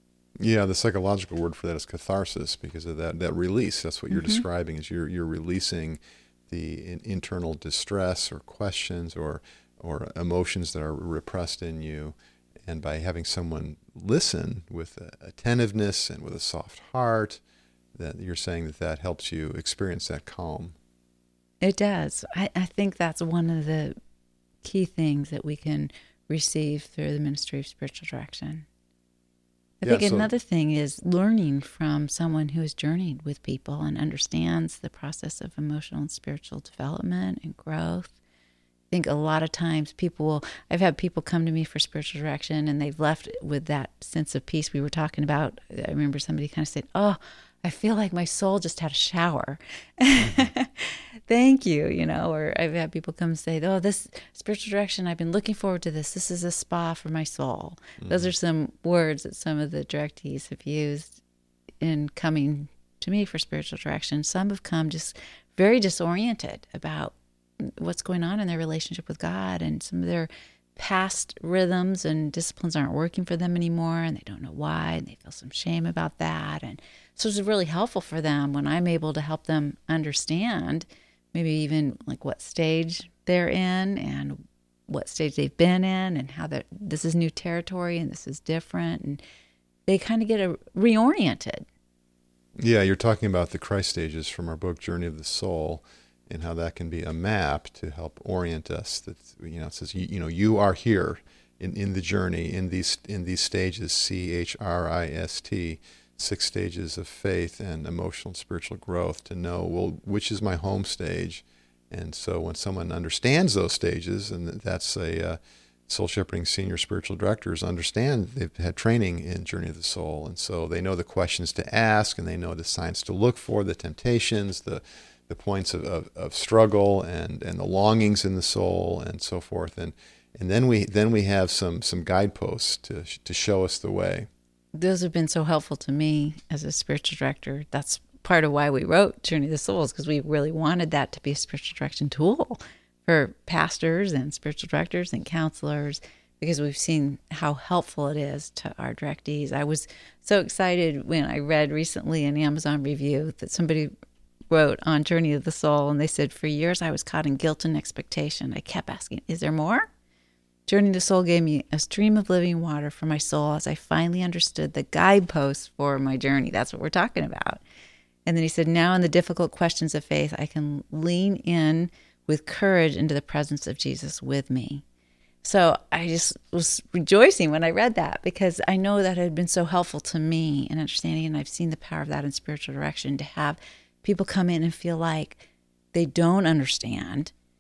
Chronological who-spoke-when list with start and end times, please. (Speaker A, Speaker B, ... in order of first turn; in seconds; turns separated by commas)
Speaker A: 0.4-17.4, Speaker B: 4.1-4.4, Speaker A: 17.9-20.8, Speaker B: 21.6-23.9, Speaker B: 24.6-28.7, Speaker B: 29.8-38.2, Speaker A: 29.8-30.3, Speaker B: 38.9-61.2, Speaker A: 58.0-58.3, Speaker B: 61.8-89.2, Speaker B: 89.9-91.7, Speaker A: 92.6-134.3, Speaker B: 134.7-153.9, Speaker B: 154.5-159.9, Speaker B: 160.7-167.6, Speaker B: 168.3-174.8, Speaker B: 175.4-187.3